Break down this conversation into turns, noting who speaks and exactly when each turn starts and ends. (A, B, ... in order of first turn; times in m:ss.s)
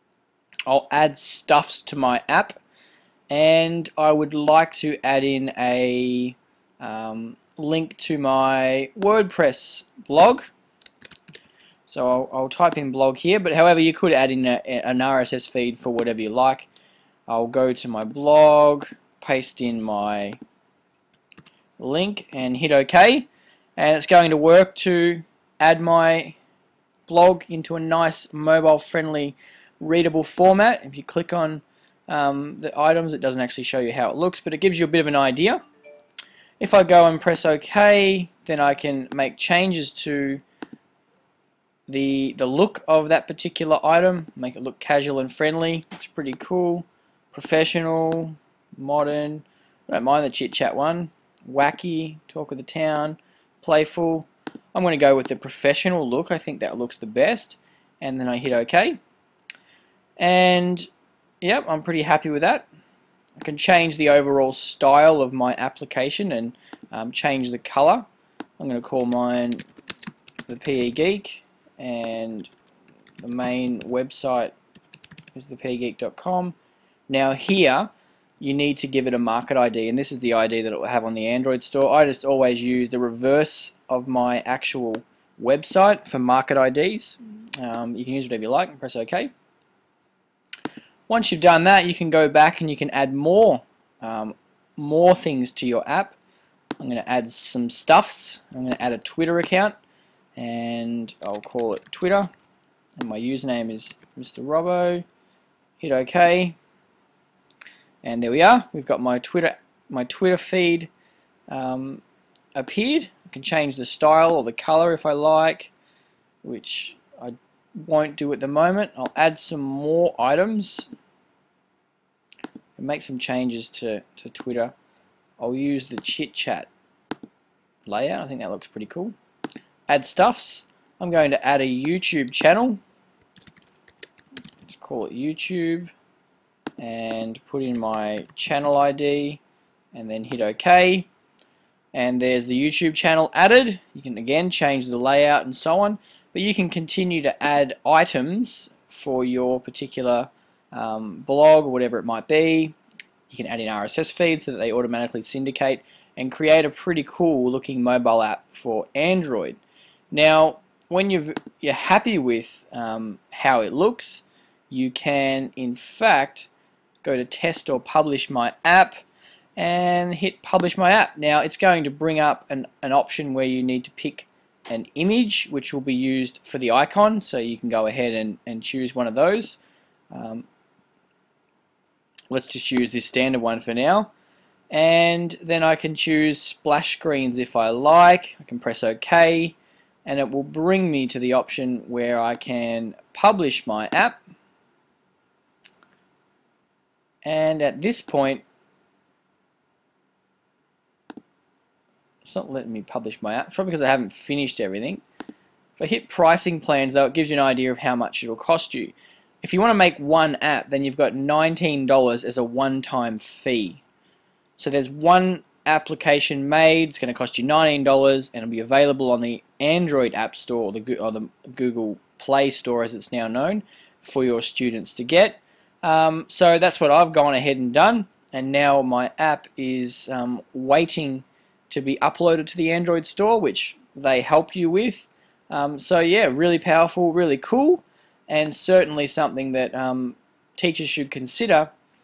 0:00.7-0:02.6 A
0:03.3-0:10.5 A
0:11.9-0:16.7 A
0:17.3-0:20.4 A
0:21.8-0:26.4 A
0:27.1-0:35.6 A
0:36.6-0:40.4 A
0:41.9-0:59.0 A
1:00.2-1:00.9 A
1:01.4-1:02.7 A
1:03.4-1:08.1 A
1:08.6-1:09.6 A
1:10.5-1:12.5 A
1:13.2-1:14.5 A
1:15.3-1:16.6 A
1:17.1-1:29.3 A
1:31.1-1:36.2 A
1:36.8-1:39.8 A
1:40.4-1:42.3 A
1:43.0-1:45.0 A
1:45.8-1:46.6 A
1:48.0-1:50.9 A
1:51.5-1:52.0 A
1:52.6-1:55.7 A
1:56.4-2:00.9 A
2:02.8-2:04.8 A
2:05.4-2:06.7 A
2:07.9-2:09.2 A
2:09.9-2:12.8 A
2:14.7-2:15.9 A
2:16.8-2:19.4 A
2:19.9-2:21.1 A
2:21.9-2:32.8 A
2:33.3-2:39.6 A
2:40.1-2:46.5 A
2:47.0-2:49.0 A
2:49.6-2:59.6 A
3:00.1-3:00.5 A
3:02.3-3:04.1 A
3:04.7-3:14.2 A
3:17.2-3:18.4 A
3:22.2-3:25.0 A
3:25.8-3:33.8 A
3:34.6-4:01.7 A